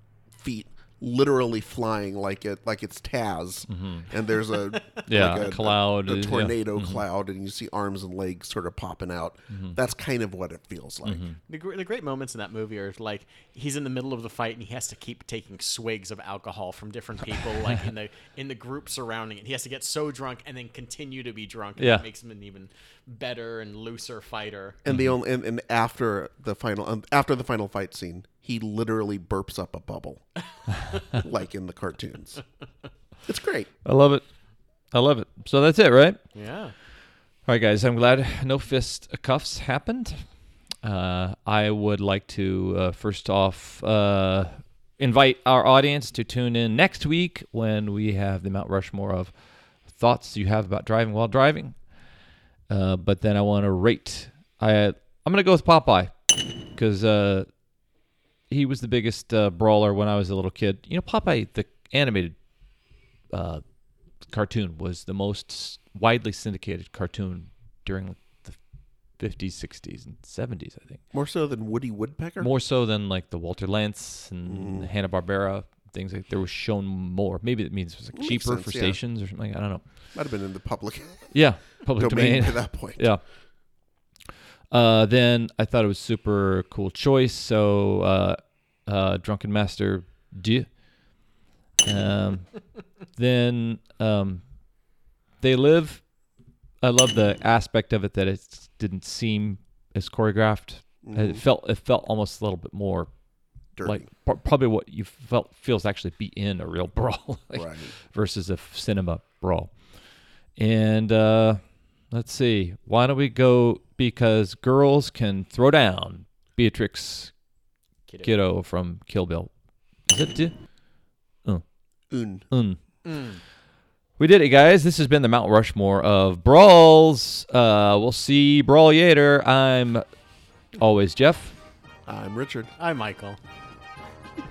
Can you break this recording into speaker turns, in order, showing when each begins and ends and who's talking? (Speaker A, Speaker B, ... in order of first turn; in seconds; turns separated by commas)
Speaker A: 0.3-11.3, Speaker B: 3.7-4.1, Speaker C: 4.7-5.1, Speaker B: 5.1-7.0, Speaker B: 9.5-9.8, Speaker B: 11.0-11.4, Speaker C: 11.5-24.8, Speaker B: 21.8-22.1, Speaker A: 24.9-30.3, Speaker B: 24.9-25.1, Speaker A: 31.1-32.4, Speaker A: 33.2-33.7, Speaker B: 33.9-34.3, Speaker B: 34.9-36.2, Speaker C: 36.3-36.8, Speaker B: 37.5-40.3, Speaker B: 40.8-52.0, Speaker B: 52.7-57.5, Speaker B: 58.5-62.4, Speaker B: 63.3-63.6, Speaker B: 64.2-68.6, Speaker B: 69.1-71.0, Speaker A: 71.1-72.5, Speaker B: 72.4-79.9, Speaker A: 74.5-74.9, Speaker A: 78.1-79.0, Speaker A: 80.1-81.3, Speaker B: 81.3-83.2, Speaker A: 82.0-83.1, Speaker B: 84.7-91.2, Speaker B: 91.8-94.5, Speaker B: 95.4-96.1, Speaker B: 96.8-103.1, Speaker A: 101.0-101.4, Speaker A: 103.8-104.1, Speaker B: 103.8-109.9, Speaker A: 107.5-107.9, Speaker B: 110.5-117.3, Speaker C: 118.1-118.3, Speaker B: 118.2-119.5, Speaker B: 120.0-120.8, Speaker A: 122.1-122.5, Speaker B: 122.5-122.8, Speaker C: 123.0-123.4, Speaker B: 124.2-130.1, Speaker B: 130.7-131.6, Speaker A: 132.1-132.7, Speaker C: 132.8-133.4